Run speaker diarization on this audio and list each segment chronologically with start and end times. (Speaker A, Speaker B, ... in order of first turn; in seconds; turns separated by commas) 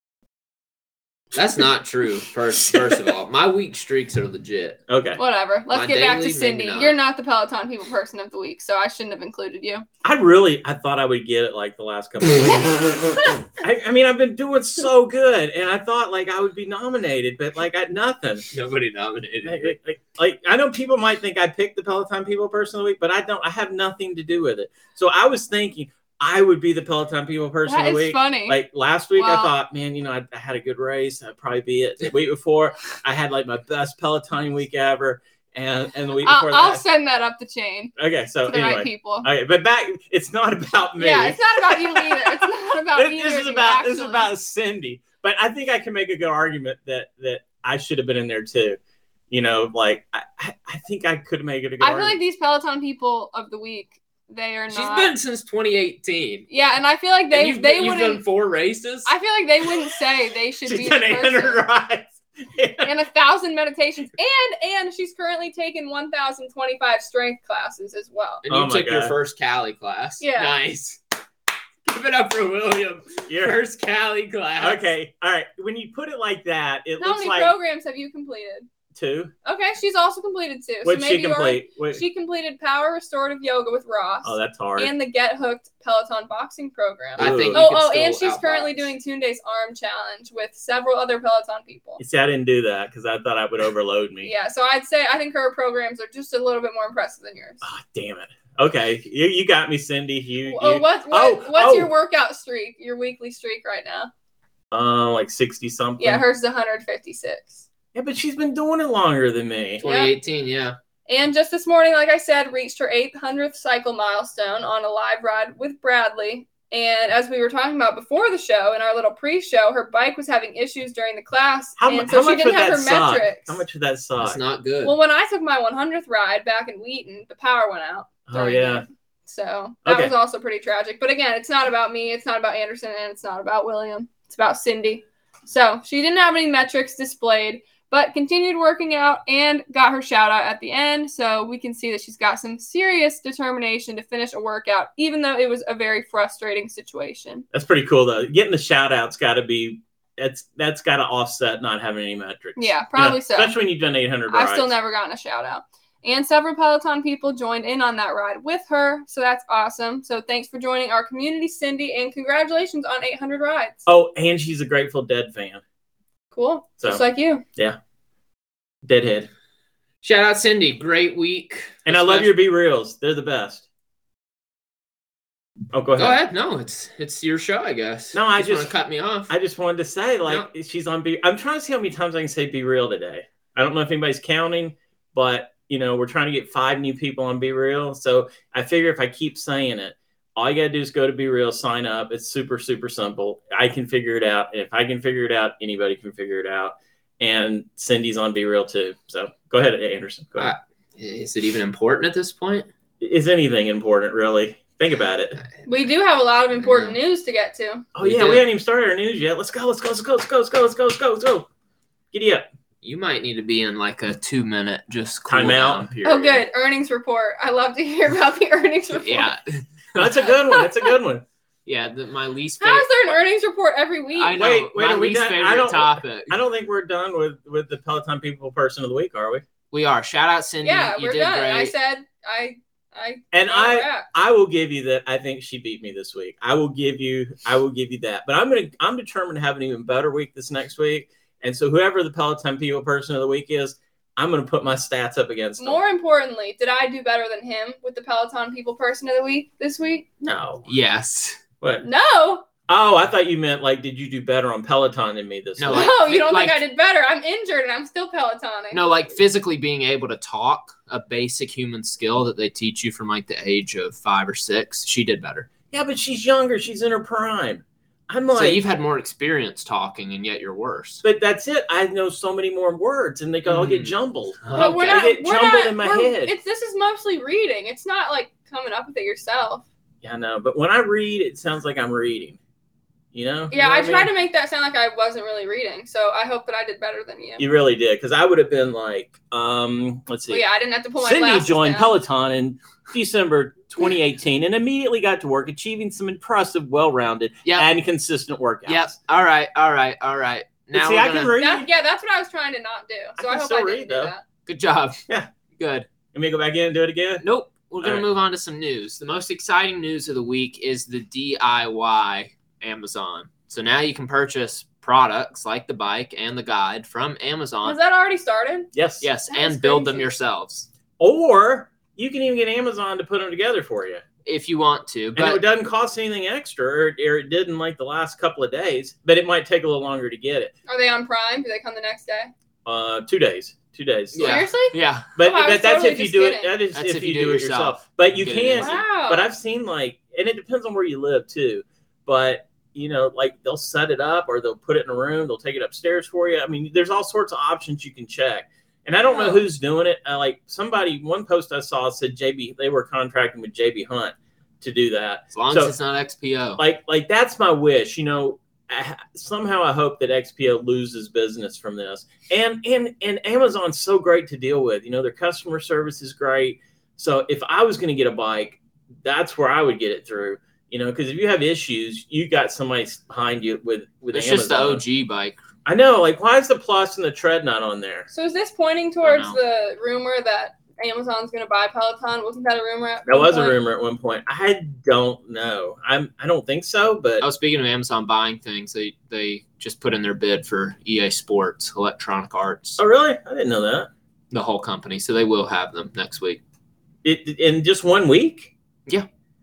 Speaker A: 1.3-4.8, Speaker B: 2.7-3.0, Speaker B: 4.9-5.2, Speaker C: 5.2-9.8, Speaker A: 5.7-7.0, Speaker B: 10.0-18.5, Speaker A: 18.5-19.7, Speaker B: 19.4-36.8, Speaker C: 27.6-28.6, Speaker C: 29.1-29.5, Speaker C: 36.2-37.9, Speaker B: 38.0-48.8, Speaker C: 38.5-39.3, Speaker C: 41.0-44.3, Speaker B: 49.3-52.2, Speaker C: 51.8-55.1, Speaker A: 54.7-56.5, Speaker C: 56.5-58.2, Speaker A: 57.3-59.1, Speaker C: 59.0-61.6, Speaker B: 60.6-62.9, Speaker C: 62.8-68.4, Speaker A: 68.4-71.0, Speaker B: 68.5-69.1, Speaker C: 70.2-70.5, Speaker A: 71.9-74.9, Speaker B: 73.3-73.6, Speaker B: 74.6-77.5, Speaker C: 77.0-78.7, Speaker B: 78.9-79.3, Speaker C: 79.4-92.0, Speaker B: 80.8-82.0, Speaker B: 84.2-84.9, Speaker A: 87.2-88.9, Speaker B: 87.2-87.6, Speaker B: 92.0-94.3, Speaker C: 94.2-97.6, Speaker B: 97.6-101.9, Speaker C: 100.5-104.1, Speaker B: 104.7-106.2, Speaker C: 106.0-107.6, Speaker B: 107.9-109.8, Speaker A: 109.8-110.8, Speaker C: 109.8-110.1, Speaker C: 111.1-123.6, Speaker B: 121.8-124.4, Speaker A: 124.2-125.0, Speaker C: 124.8-147.4, Speaker B: 128.3-128.8, Speaker B: 129.8-130.1, Speaker B: 147.5-154.7, Speaker C: 152.6-153.5, Speaker C: 154.3-163.9, Speaker B: 163.9-165.6, Speaker C: 166.3-167.4, Speaker B: 168.8-169.3, Speaker A: 170.0-172.3, Speaker B: 171.9-173.6, Speaker B: 175.7-176.2, Speaker A: 176.0-179.3, Speaker B: 178.1-178.7, Speaker B: 179.3-200.5, Speaker A: 200.4-202.7, Speaker B: 203.0-205.4, Speaker C: 205.7-207.9, Speaker A: 206.6-207.0, Speaker B: 207.9-211.5, Speaker A: 208.0-208.4, Speaker B: 212.1-212.4, Speaker A: 212.8-216.4, Speaker B: 215.3-215.9, Speaker C: 216.0-219.3, Speaker A: 218.9-220.3, Speaker B: 219.9-221.2, Speaker A: 221.7-223.1, Speaker C: 222.6-224.4, Speaker A: 224.2-226.4, Speaker B: 224.3-229.4, Speaker A: 229.7-231.7, Speaker C: 230.6-234.1, Speaker B: 233.3-245.8, Speaker C: 245.6-250.1, Speaker B: 250.2-250.7, Speaker A: 250.7-251.4, Speaker C: 251.8-252.4, Speaker B: 252.7-256.0, Speaker A: 255.6-256.6, Speaker C: 255.7-258.8, Speaker A: 258.7-265.5, Speaker B: 265.7-268.6, Speaker A: 268.3-271.0, Speaker B: 271.0-276.3, Speaker A: 273.4-275.0, Speaker C: 274.5-279.6, Speaker B: 280.0-282.4, Speaker B: 283.1-284.1, Speaker C: 283.5-287.4, Speaker B: 287.4-290.4, Speaker C: 290.3-291.9, Speaker B: 291.0-298.9, Speaker A: 297.4-297.7, Speaker A: 298.6-301.3, Speaker B: 300.7-301.7, Speaker C: 301.4-304.2, Speaker B: 303.2-304.1, Speaker A: 304.4-305.0, Speaker A: 305.6-305.9, Speaker B: 306.1-307.2, Speaker A: 307.2-317.8, Speaker C: 317.6-318.7, Speaker B: 318.7-319.1, Speaker A: 319.0-320.7, Speaker C: 319.3-320.1, Speaker B: 321.0-324.0, Speaker A: 324.2-325.4, Speaker B: 325.1-330.5, Speaker C: 330.7-332.3, Speaker B: 332.6-334.5, Speaker A: 334.1-335.1, Speaker C: 334.2-336.6, Speaker B: 335.1-355.7, Speaker A: 336.7-338.8, Speaker C: 338.6-339.3, Speaker C: 349.0-349.4, Speaker A: 355.3-356.6, Speaker B: 356.6-374.8, Speaker A: 374.1-375.4, Speaker B: 375.6-378.1, Speaker C: 378.1-383.6, Speaker A: 379.0-379.4, Speaker B: 383.1-387.2, Speaker A: 387.2-392.8, Speaker B: 392.8-393.9, Speaker A: 394.3-396.4, Speaker B: 397.0-398.5